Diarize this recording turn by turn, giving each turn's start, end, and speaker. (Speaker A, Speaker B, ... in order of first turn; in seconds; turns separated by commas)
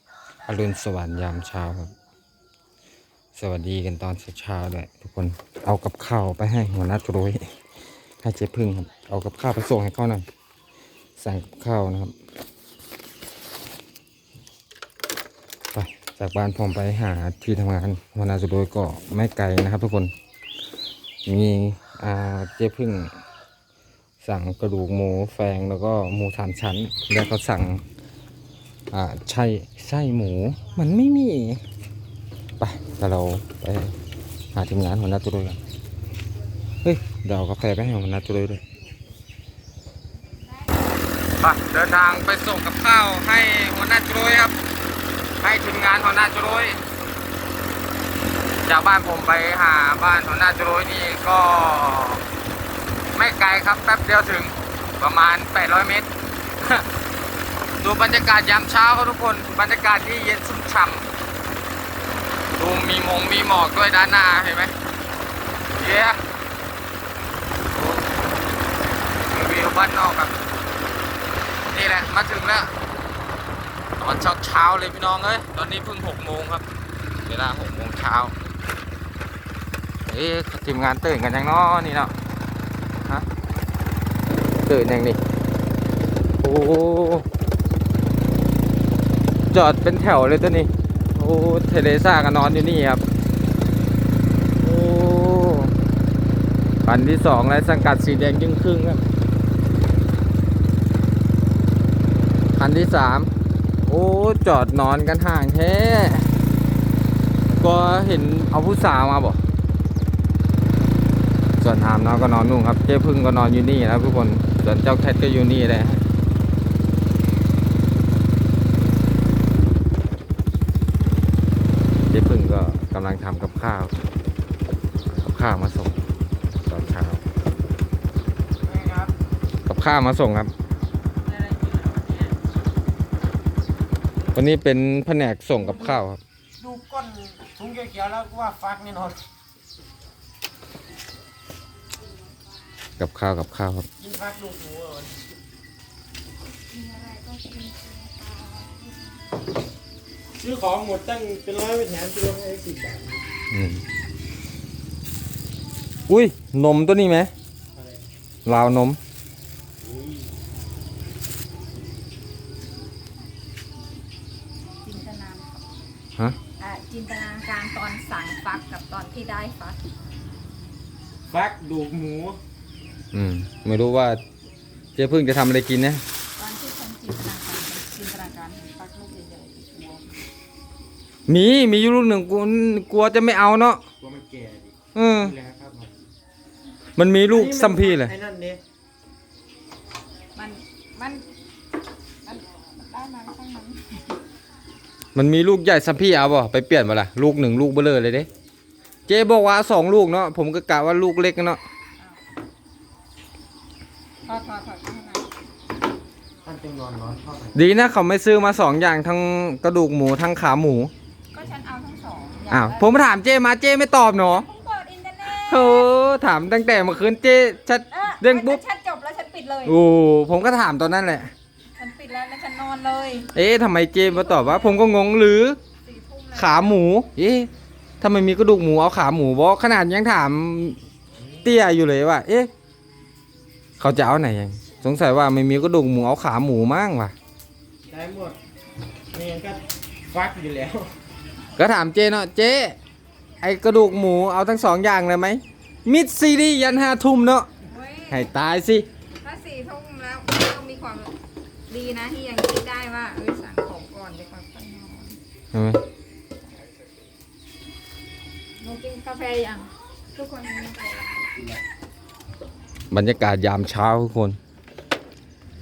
Speaker A: 0.5-1.9, Speaker A: 3.3-7.4, Speaker A: 8.2-10.2, Speaker A: 11.2-12.1, Speaker A: 15.7-20.1, Speaker A: 21.2-23.1, Speaker A: 24.2-27.8, Speaker A: 28.9-31.6, Speaker A: 32.6-33.9, Speaker A: 34.5-35.6, Speaker A: 36.8-38.6, Speaker A: 41.4-44.5, Speaker A: 45.4-46.8, Speaker A: 48.6-52.2, Speaker A: 53.1-56.1, Speaker A: 57.8-61.1, Speaker A: 62.5-64.7, Speaker A: 65.8-66.2, Speaker A: 67.7-68.1, Speaker A: 69.3-70.3, Speaker A: 71.7-72.7, Speaker A: 74.0-76.6, Speaker A: 77.2-78.3, Speaker A: 80.1-82.1, Speaker A: 84.6-85.2, Speaker A: 86.4-87.3, Speaker A: 89.5-93.0, Speaker A: 94.6-95.7, Speaker A: 96.8-99.0, Speaker A: 102.5-103.3, Speaker A: 103.8-106.3, Speaker A: 107.5-109.4, Speaker A: 111.6-116.0, Speaker A: 122.1-123.9, Speaker A: 125.0-125.9, Speaker A: 126.6-127.2, Speaker B: 128.6-129.1, Speaker A: 129.7-130.5, Speaker B: 131.2-132.3, Speaker A: 134.3-136.2, Speaker B: 136.6-139.2, Speaker C: 142.2-142.5, Speaker A: 143.0-143.9, Speaker B: 144.0-145.2, Speaker C: 146.6-149.5, Speaker B: 150.4-153.3, Speaker A: 153.5-153.8, Speaker A: 156.1-157.3, Speaker B: 157.7-158.0, Speaker A: 158.4-159.0, Speaker B: 159.8-160.3, Speaker C: 164.8-165.8, Speaker C: 166.6-169.8, Speaker B: 171.3-172.4, Speaker A: 173.1-174.2, Speaker A: 174.9-176.0, Speaker C: 176.4-180.2, Speaker A: 181.3-183.8, Speaker B: 184.0-185.9, Speaker A: 184.9-185.3, Speaker A: 187.0-188.1, Speaker B: 187.3-188.6, Speaker C: 190.3-191.3, Speaker C: 192.2-194.2, Speaker A: 195.1-198.3, Speaker A: 199.1-201.6, Speaker C: 204.2-205.3, Speaker B: 206.4-207.6, Speaker A: 207.5-210.9, Speaker C: 211.3-213.0, Speaker A: 212.5-214.4, Speaker C: 214.2-215.9, Speaker A: 215.5-218.6, Speaker C: 217.9-219.8, Speaker A: 219.7-221.3, Speaker C: 221.8-223.3, Speaker A: 223.3-225.6, Speaker C: 223.9-225.0, Speaker C: 225.8-226.8, Speaker A: 226.3-227.5, Speaker A: 228.0-230.8, Speaker A: 231.4-232.5, Speaker A: 233.8-237.1, Speaker B: 237.8-238.4, Speaker B: 239.1-240.9, Speaker A: 241.6-242.8, Speaker A: 243.4-247.5, Speaker C: 247.6-248.3, Speaker A: 248.1-248.9, Speaker C: 249.2-251.1, Speaker C: 251.7-255.2, Speaker A: 255.5-255.8, Speaker C: 258.6-261.3, Speaker A: 262.9-264.4